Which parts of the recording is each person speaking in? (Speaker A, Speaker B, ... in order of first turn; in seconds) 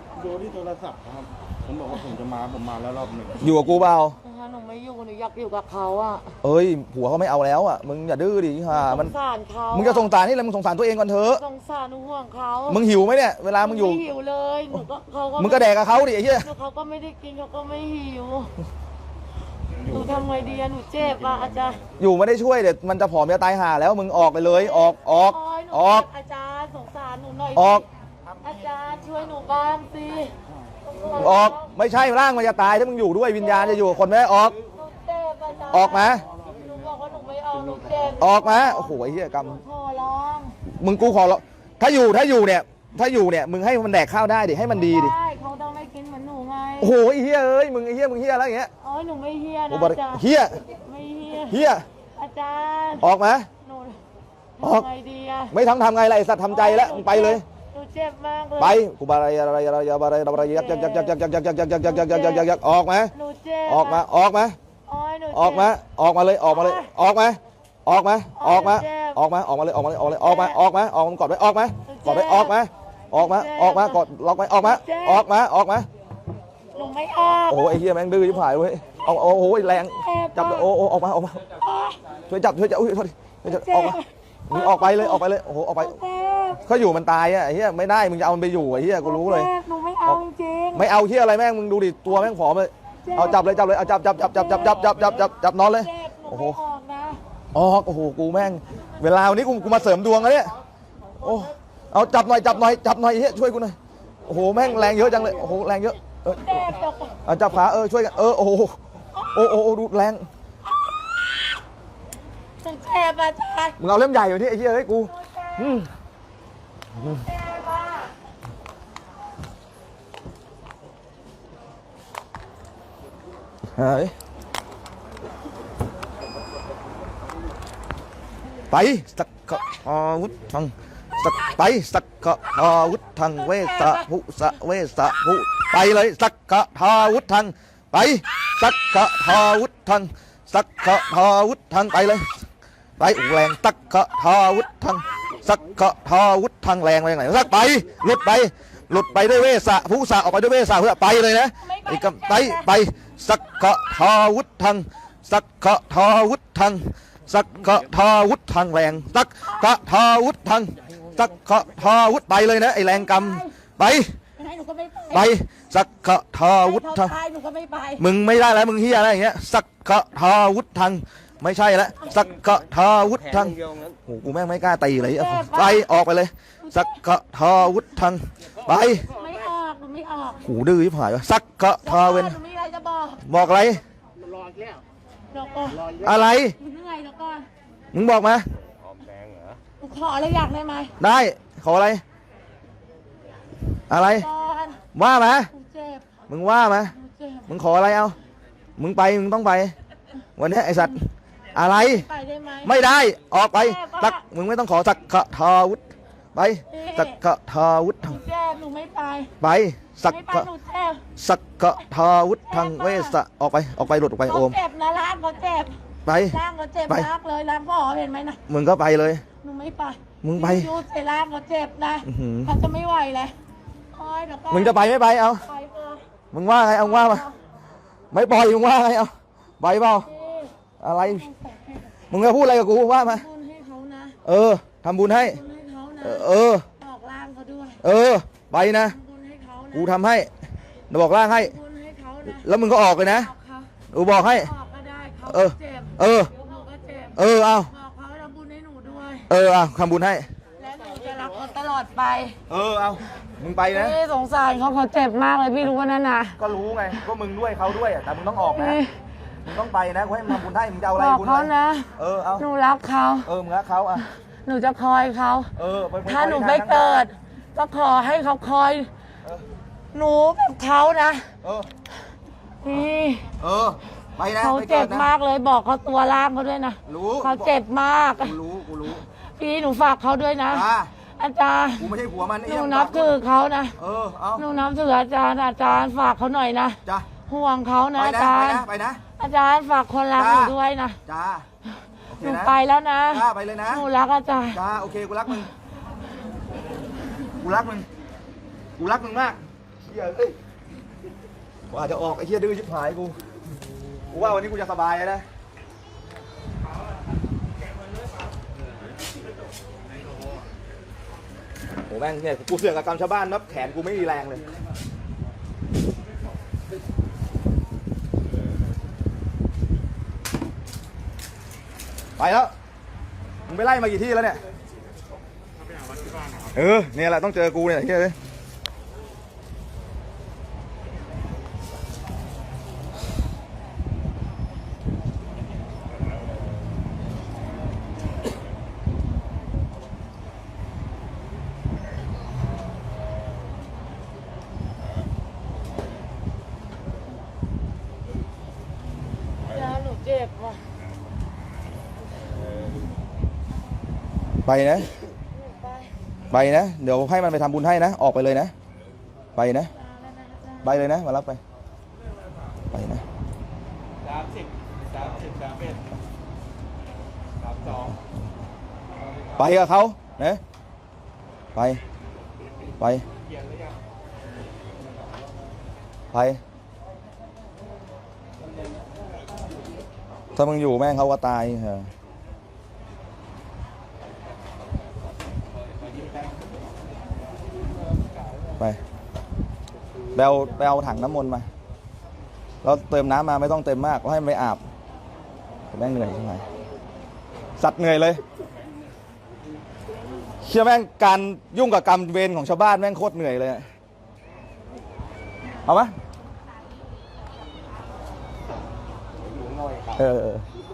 Speaker A: 0.3-3.3, 189.0-189.5, 365.0-365.8
Speaker B: 3.4-4.2, 6.4-9.1, 9.7-11.4, 12.7-14.0, 15.4-16.5, 22.0-26.1, 27.6-27.9, 31.1-34.6, 35.7-36.2, 38.2-39.6, 40.7-45.1, 46.8-48.7, 49.7-50.6, 51.5-51.9, 53.0-53.5, 54.6-54.9, 55.5-57.4, 58.6-63.1, 63.7-64.6, 65.3-75.9, 77.5-81.4, 82.3-86.0, 86.6-89.5, 90.8-96.6, 97.5-100.6, 101.2-106.7, 107.2-110.3, 113.8-115.9, 123.8-124.1, 128.7-142.4, 143.0-164.1, 165.1-167.1, 168.0-179.1, 180.4-182.4, 183.2-183.8, 186.0-186.6, 187.9-188.4, 191.0-192.0, 193.9-194.3, 194.9-195.5, 196.3-196.9, 197.5-198.2, 198.8-199.7, 200.4-202.1, 202.6-205.8, 206.3-208.2, 209.4-210.5, 211.2-214.6, 216.1-216.4, 218.5-219.2, 220.2-220.7, 222.0-222.5, 224.5-225.4, 226.3-227.2, 228.1-230.1, 230.8-231.3, 232.1-233.2, 234.2-235.4, 236.0-236.6, 237.8-239.0, 239.7-240.3, 240.9-241.5, 242.3-243.3, 243.9-244.5, 245.2-246.3, 247.2-247.7, 249.3-250.3, 252.5-254.0, 256.4-258.8, 259.4-262.5, 263.2-264.1, 265.6-267.0, 271.4-271.7, 273.4-275.1, 276.9-277.5, 278.2-279.0, 280.5-280.9, 281.8-283.1, 283.8-284.4, 288.0-289.0, 290.1-290.5, 291.1-291.5, 292.1-292.5, 293.1-293.9, 294.5-295.5, 297.4-297.9, 298.8-300.4, 301.7-303.1, 304.1-305.2, 311.9-314.4, 322.2-322.5, 323.5-324.4, 326.5-328.1, 354.5-354.9, 356.3-358.5, 359.4-359.7, 360.6-361.4, 362.7-363.0, 369.4-370.4, 371.5-371.8, 372.8-373.0, 376.1-376.4, 380.4-381.9, 390.1-391.5, 392.6-394.6, 395.7-396.4, 397.6-398.2, 400.4-403.6, 405.6-405.9, 409.9-410.4
Speaker C: 4.2-6.3, 8.7-10.1, 11.3-12.8, 13.6-18.5, 19.9-21.8, 24.5-27.9, 28.4-31.7, 33.4-33.9, 34.7-40.6, 44.7-46.9, 48.8-51.6, 52.2-53.1, 53.6-54.0, 54.6-55.5, 56.5-58.8, 60.3-61.1, 61.8-62.5, 63.1-64.0, 64.9-65.8, 66.5-66.9, 68.4-69.2, 70.2-70.6, 71.9-72.6, 73.1-74.0, 74.6-75.2, 76.7-77.7, 79.9-80.7, 81.6-82.0, 83.5-85.2, 85.8-86.6, 89.0-90.9, 93.0-93.4, 94.3-95.0, 95.7-97.2, 106.3-107.2, 112.6-113.8, 115.1-115.8, 117.2-118.1, 133.4-134.1, 151.6-152.7, 162.9-163.5, 164.4-165.3, 166.6-168.0, 175.1-175.9, 176.6-177.0, 179.1-180.4, 181.8-183.2, 185.3-186.0, 186.6-187.5, 189.8-191.0, 194.0-194.8, 195.5-196.1, 196.9-197.5, 201.6-202.9, 203.5-204.2, 206.7-207.2, 208.0-209.3, 210.1-211.0, 212.5-213.2, 214.2-215.8, 216.3-218.4, 219.4-223.3, 223.9-224.9, 225.4-226.0, 226.8-227.4, 230.0-231.9, 233.0-234.2, 235.1-237.8, 238.6-240.0, 241.3-242.5, 243.1-249.3, 250.6-252.4, 253.7-256.4, 258.5-258.9, 260.9-263.3, 264.0-265.5, 266.0-268.9, 269.9-271.3, 272.6-273.3, 274.4-278.3, 279.4-280.6, 281.2-281.9, 282.4-283.8, 284.4-288.6, 289.2-291.0, 292.2-294.6, 349.5-350.6, 355.4-355.9, 359.8-360.8